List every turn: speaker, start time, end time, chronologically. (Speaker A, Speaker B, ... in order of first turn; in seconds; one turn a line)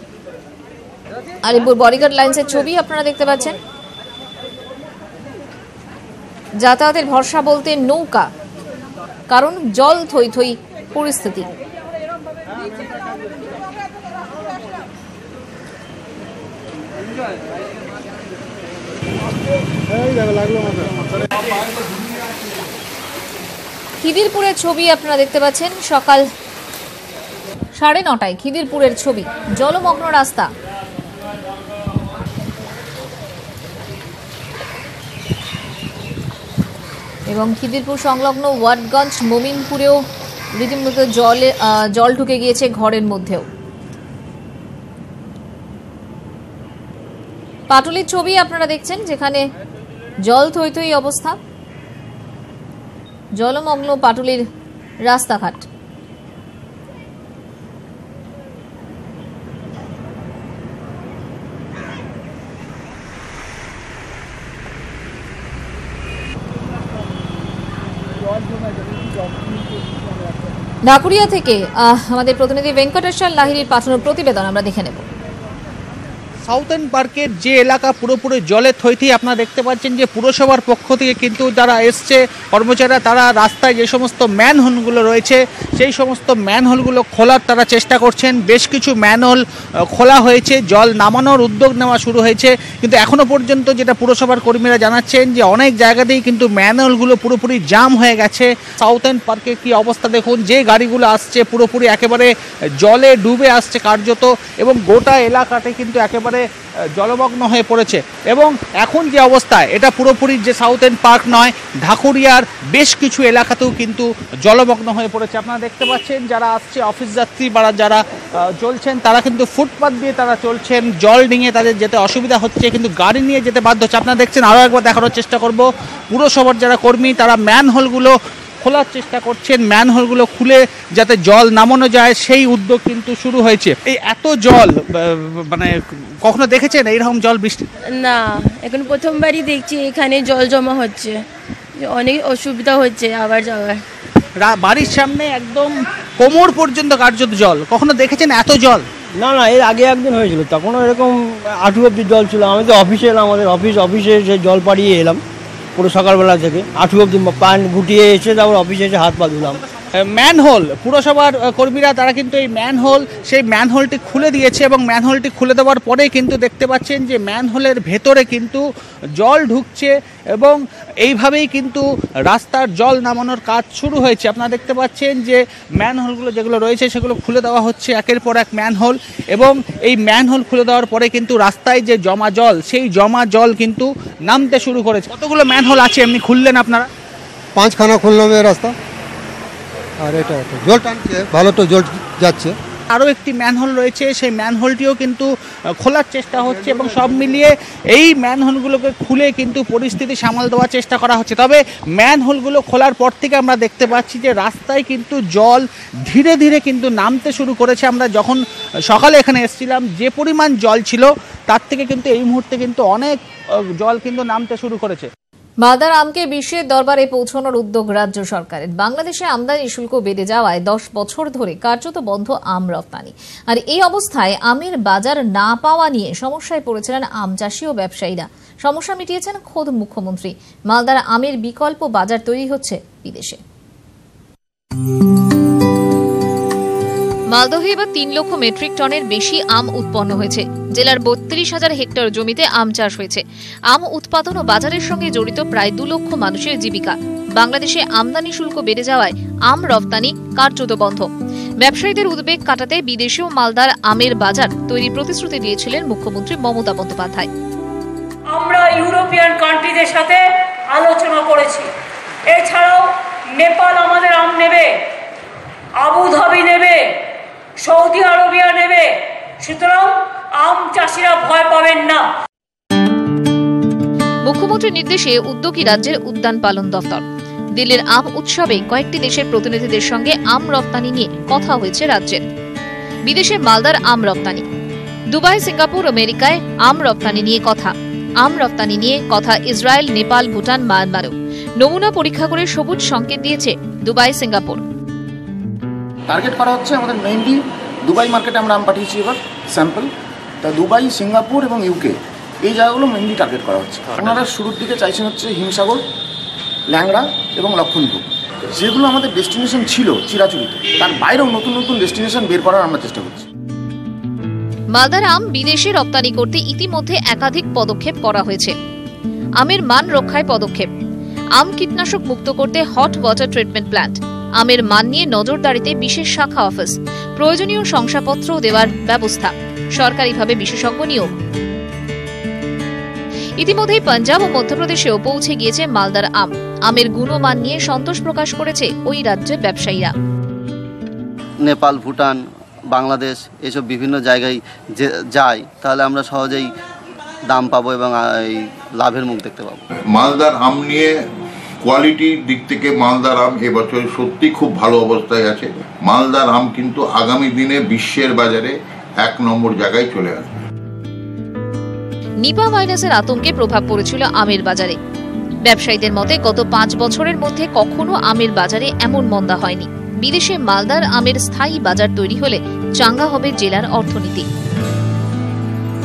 Speaker A: 1.5-3.6
Speaker A: 6.6-8.3
Speaker A: 9.3-11.5
Speaker A: 24.0-26.2
Speaker A: 27.8-30.5
Speaker A: 37.3-40.0
Speaker A: 40.6-43.5
Speaker A: 47.7-49.4
Speaker A: 50.3-51.4
Speaker A: 53.4-54.4
Speaker A: 55.1-55.7
Speaker A: 70.9-75.1
Speaker B: 76.5-106.5
Speaker B: 107.0-137.6
Speaker C: 138.0-141.1
Speaker C: 141.9-143.8
Speaker B: 144.4-148.8
Speaker D: 149.2-155.2
Speaker D: 155.8-159.6
Speaker B: 159.9-168.6
Speaker B: 169.2-186.9
Speaker E: 187.6-188.8
Speaker E: 190.0-192.6
Speaker B: 192.9-195.3
Speaker B: 195.8-213.2
Speaker B: 213.8-215.1
Speaker A: 215.6-233.4
Speaker A: 237.3-251.1
Speaker A: 251.6-257.3
Speaker F: 258.3-261.7
Speaker F: 262.3-264.9
Speaker F: 265.8-272.1
Speaker A: 274.3-277.0
Speaker A: 277.6-282.2
Speaker A: 283.1-284.4
Speaker A: 285.1-294.6
Speaker G: 296.1-299.9
Speaker G: 300.4-305.8
Speaker G: 306.7-308.0
Speaker G: 308.5-313.3
Speaker A: 314.7-318.6
Speaker A: 319.4-320.7
Speaker A: 321.4-331.1
Speaker A: 333.4-339.9
Speaker H: 341.4-346.5
Speaker H: 347.3-349.6
Speaker I: 349.9-350.9
Speaker I: 351.6-360.3
Speaker A: 362.2-364.8
Speaker A: 365.4-374.3